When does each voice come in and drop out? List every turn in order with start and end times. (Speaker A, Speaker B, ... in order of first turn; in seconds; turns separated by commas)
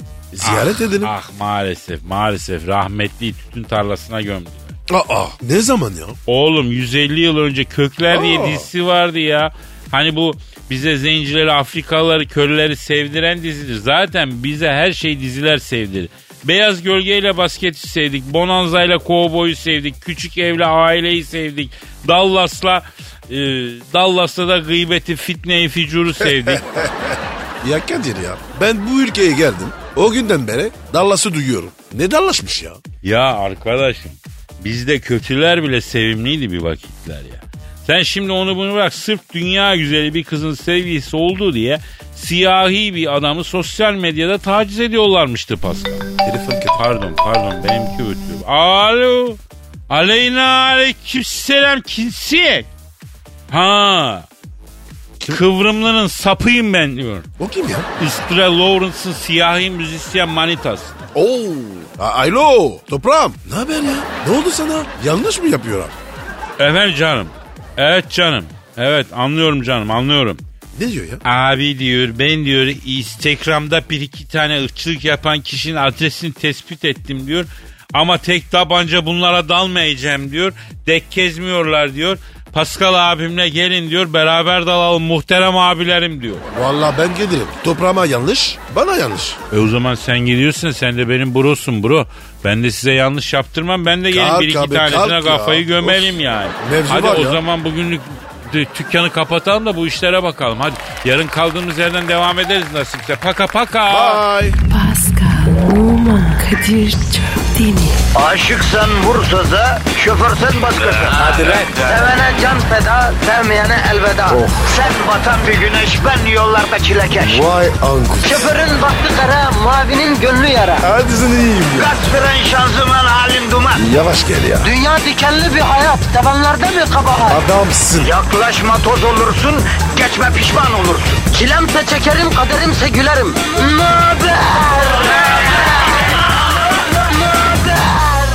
Speaker A: 0.3-1.1, Speaker B: 0.4-4.7, Speaker A: 4.9-6.2, Speaker B: 6.3-26.7, Speaker A: 8.1-8.7, Speaker A: 26.2-32.8, Speaker B: 33.0-46.1, Speaker A: 46.2-46.8, Speaker B: 46.7-52.7, Speaker B: 53.5-54.3, Speaker B: 55.3-57.3, Speaker A: 57.4-57.9, Speaker B: 58.0-60.9, Speaker A: 61.1-66.0, Speaker B: 66.6-70.4, Speaker A: 70.7-71.2, Speaker B: 71.2-86.5, Speaker A: 86.5-89.4, Speaker B: 89.5-104.2, Speaker A: 94.1-97.4, Speaker A: 103.9-104.6, Speaker C: 104.7-108.0, Speaker D: 108.1-117.5, Speaker A: 114.3-114.8, Speaker A: 117.2-118.5, Speaker D: 118.2-120.9, Speaker A: 120.8-121.9, Speaker D: 121.7-123.9, Speaker A: 123.7-124.7, Speaker D: 124.6-127.4, Speaker A: 127.3-128.2, Speaker D: 128.0-136.0, Speaker D: 137.1-138.1